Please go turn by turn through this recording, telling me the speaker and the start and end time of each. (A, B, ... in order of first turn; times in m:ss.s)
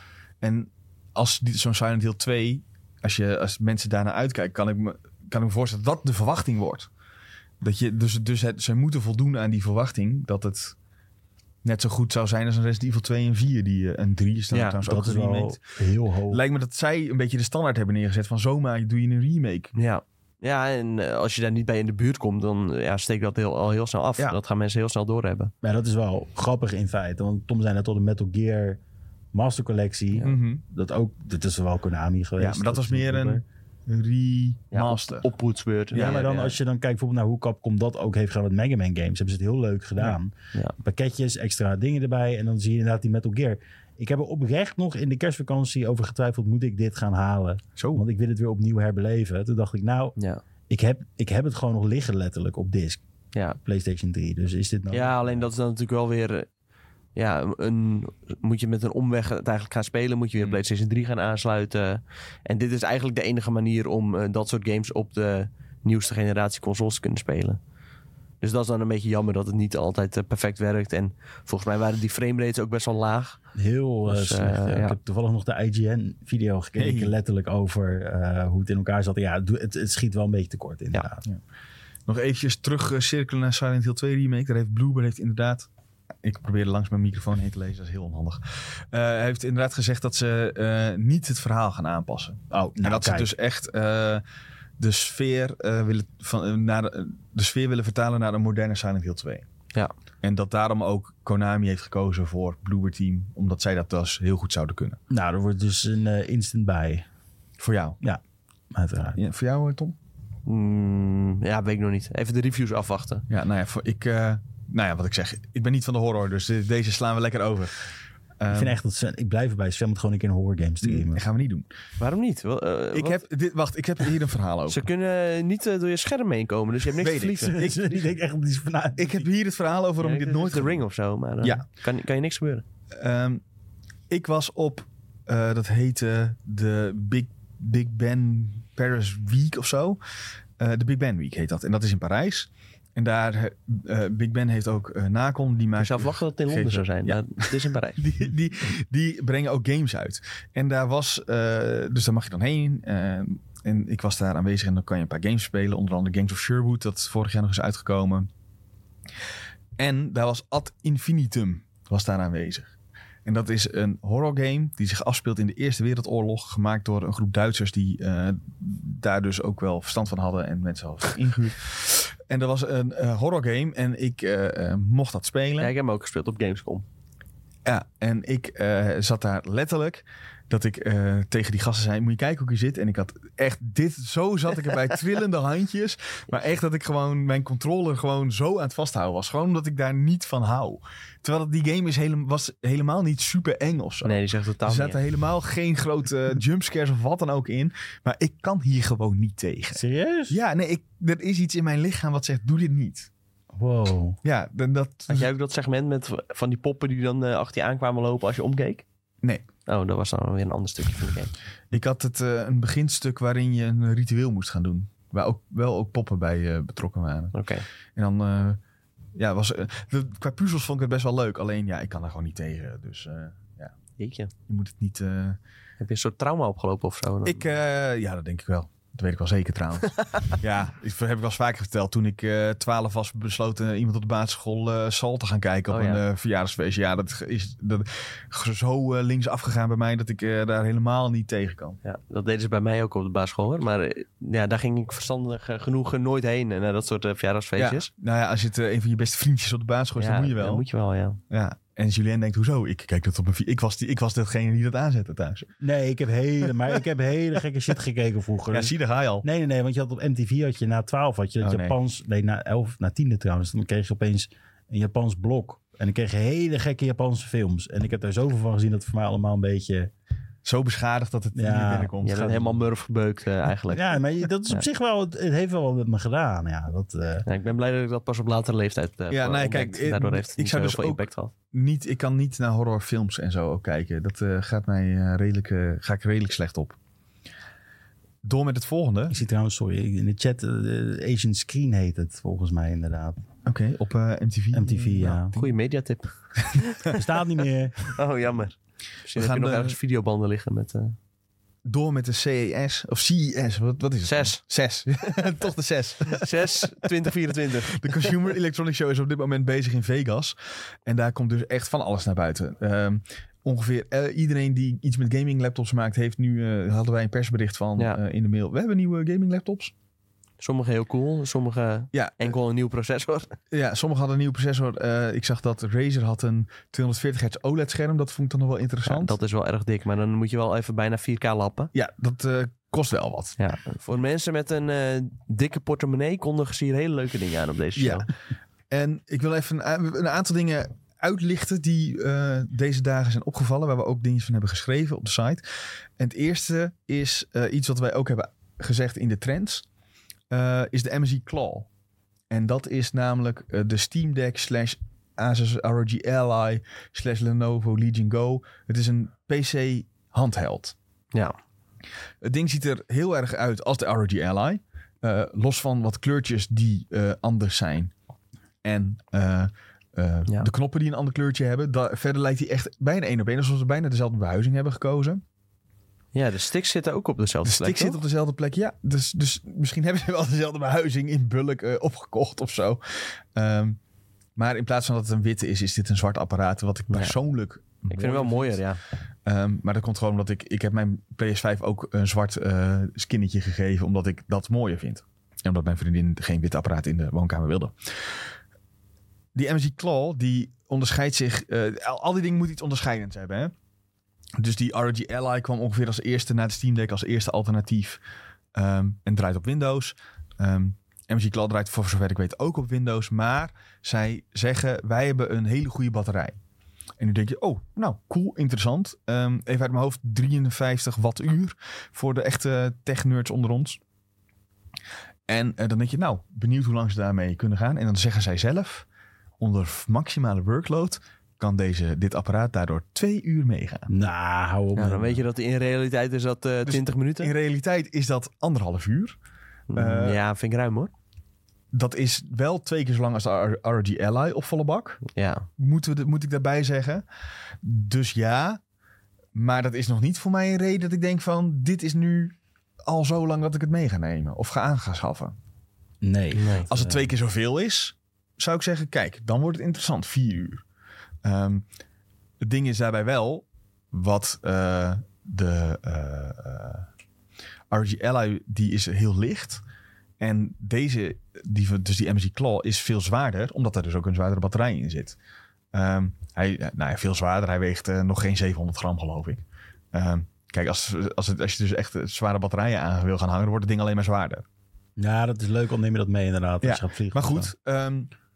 0:00.4-0:06.9 A
0:07.6-0:10.8 A
0:11.6-0:15.6 A
0:14.5-0:14.8 B
0:14.8-0:16.4 C
0:16.3-0:19.7 A
0:19.7-0:25.5 B
0:25.6-0:28.8 C
0:29.3-0:33.4 C
0:30.2-0:30.6 A
0:32.4-0:35.3 A
0:34.7-0:36.6 B
0:35.9-0:36.2 A
0:35.9-0:50.1 C
0:47.8-0:48.0 A
0:50.7-0:53.0 C
0:53.6-0:55.5 C
0:54.9-0:56.5 B
0:57.2-1:07.6 B
1:08.4-1:13.4 B
1:13.5-1:21.2 C
1:14.0-1:15.0 B
1:16.8-1:17.1 A
1:22.1-1:25.7 A
1:26.2-1:34.2 A
1:32.5-1:33.3 C
1:34.8-1:39.4 A
1:40.2-1:45.0 A
1:45.1-1:47.0 C
1:47.6-1:48.0 A
1:48.7-1:49.2 C
1:49.1-1:49.9 A
1:50.4-1:53.2 B
1:53.3-1:57.9 A
1:58.4-1:58.8 A
1:58.5-2:01.2 C
2:00.8-2:01.7 A
2:02.0-2:03.2 B
2:02.9-2:04.8 A
2:04.7-2:07.6 B
2:07.0-2:08.1 A
2:07.4-2:09.3 C
2:09.0-2:10.8 A
2:10.0-2:12.6 B
2:12.9-2:13.4 A
2:14.1-2:20.0 A
2:20.6-2:38.3 A
2:25.8-2:28.0 B
2:39.8-2:42.7 A
2:43.2-2:55.7 A
2:55.6-2:56.8 B
2:57.6-3:23.1 A
3:14.0-3:15.0 B
3:19.7-3:20.4 C
3:23.5-3:24.2 C
3:24.2-3:25.3 A
3:25.1-3:28.8 B
3:29.7-3:31.3 B
3:31.7-3:37.4 A
3:37.3-3:37.6 B
3:37.9-3:38.6 A
3:39.2-3:43.7 A
3:44.0-3:44.3 B
3:44.5-3:45.4 A
3:45.8-3:47.4 B
3:47.2-4:01.8 A
3:55.7-3:56.0 B
4:01.8-4:07.9 B
4:07.6-4:10.6 A
4:10.0-4:11.2 B
4:11.3-4:15.5 A
4:15.6-4:29.9 C
4:18.5-4:19.2 A
4:21.4-4:21.8 A
4:30.4-4:32.5 A
4:31.3-4:32.5 C
4:32.0-4:34.6 B
4:33.7-4:37.3 C
4:37.2-4:41.3 B
4:39.1-4:46.8 A
4:48.2-4:49.1 A
4:49.1-4:53.2 C
4:53.4-4:55.2 A
4:54.5-4:55.4 C
4:55.3-4:57.1 B
4:56.5-4:56.9 A
4:56.9-4:58.0 C
4:57.8-5:01.0 B
4:59.1-4:59.8 A
5:01.6-5:06.9 A
5:04.0-5:05.2 B
5:06.1-5:08.1 B
5:07.6-5:19.7 A
5:20.4-5:23.4 B
5:21.9-5:22.3 A
5:23.5-5:29.1 A
5:28.8-5:31.7 B
5:31.7-5:33.4 A
5:33.4-5:38.1 B
5:37.8-5:38.0 A
5:38.7-5:45.4 A
5:46.0-5:49.6 A
5:50.3-5:51.7 A
5:52.3-6:00.7 A
6:02.2-6:07.9 A
6:08.6-6:15.2 A
6:16.1-6:18.0 B
6:17.4-6:23.8 A
6:24.4-6:28.6 A
6:26.9-6:27.1 B
6:27.9-6:28.8 B
6:29.2-6:38.3 A
6:39.3-6:43.5 A
6:44.4-6:48.0 A
6:48.5-6:56.4 A
6:57.0-7:03.8 A
7:05.3-7:08.8 A
7:09.4-7:13.9 A
7:13.9-7:15.2 C
7:14.8-7:17.3 B
7:16.6-7:19.2 A
7:19.7-7:20.9 B
7:19.7-7:20.2 A
7:21.7-7:25.0 A
7:25.1-7:25.5 B
7:25.6-7:27.0 A
7:27.6-7:28.6 A
7:29.3-7:32.3 A
7:32.8-7:35.3 A
7:36.0-7:37.1 C
7:36.3-7:36.6 B
7:36.7-7:40.6 A
7:41.2-7:41.6 A
7:42.4-7:46.8 A
7:47.7-7:49.6 A
7:50.2-7:55.2 A
7:55.7-8:04.4 A
8:05.0-8:07.5 C
8:06.6-8:08.1 A